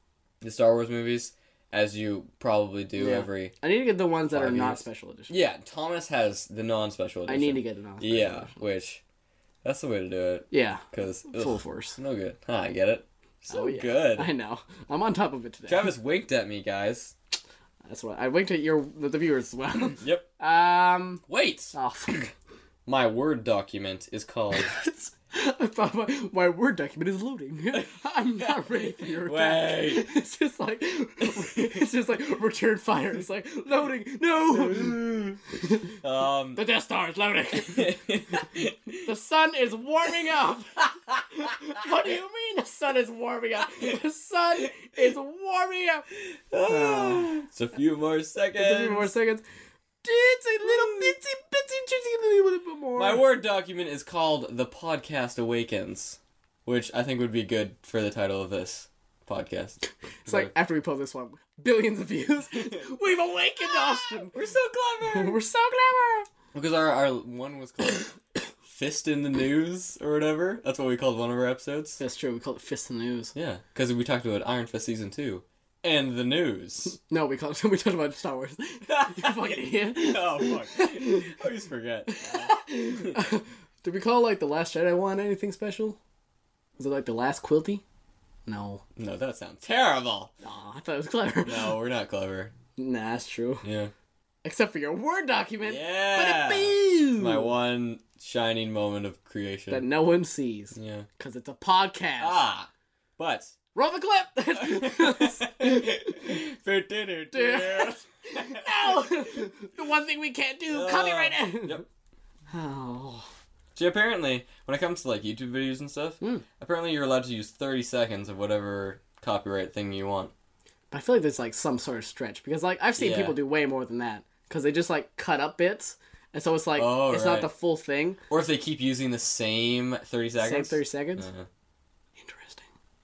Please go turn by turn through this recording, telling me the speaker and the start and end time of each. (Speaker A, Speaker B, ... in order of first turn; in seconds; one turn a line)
Speaker A: 0.4-3.5
Speaker B: 3.0-5.3
Speaker A: 4.3-9.0
Speaker B: 7.3-8.5
Speaker A: 9.6-14.3
Speaker B: 10.5-12.0
Speaker B: 13.5-15.9
Speaker A: 15.7-17.1
Speaker B: 17.9-22.3
Speaker A: 20.0-20.2
Speaker A: 21.3-21.7
Speaker A: 22.9-24.7
Speaker B: 24.5-35.0
Speaker A: 28.4-30.1
Speaker A: 34.5-35.4
Speaker B: 35.5-35.9
Speaker A: 36.0-36.6
Speaker B: 36.5-38.0
Speaker A: 37.7-39.1
Speaker B: 39.0-46.0
Speaker A: 41.1-41.8
Speaker A: 46.2-49.1
Speaker B: 46.6-47.4
Speaker B: 48.5-49.4
Speaker B: 50.0-53.3
Speaker A: 50.6-51.1
Speaker A: 53.0-60.5
Speaker B: 60.2-64.3
Speaker A: 63.6-65.4
Speaker B: 65.1-66.3
Speaker A: 66.5-68.1
Speaker A: 68.7-72.0
Speaker B: 72.0-73.3
Speaker A: 73.3-77.0
Speaker B: 77.1-81.3
Speaker A: 78.9-83.2
Speaker B: 82.1-86.0
Speaker B: 86.8-87.8
Speaker B: 88.5-88.8
Speaker A: 89.0-90.3
Speaker B: 90.4-91.7
Speaker A: 91.4-92.5
Speaker B: 92.8-93.6
Speaker A: 93.6-93.9
Speaker B: 94.4-97.5
Speaker A: 95.6-99.9
Speaker B: 99.7-102.4
Speaker A: 100.7-101.1
Speaker A: 102.2-103.5
Speaker B: 103.7-106.4
Speaker A: 104.6-109.0
Speaker B: 107.3-111.8
Speaker A: 110.7-111.8
Speaker B: 112.5-113.3
Speaker A: 113.7-120.3
Speaker B: 120.9-128.2
Speaker A: 123.0-123.4
Speaker A: 126.8-127.5
Speaker A: 128.3-131.5
Speaker B: 130.4-131.3
Speaker B: 132.2-132.7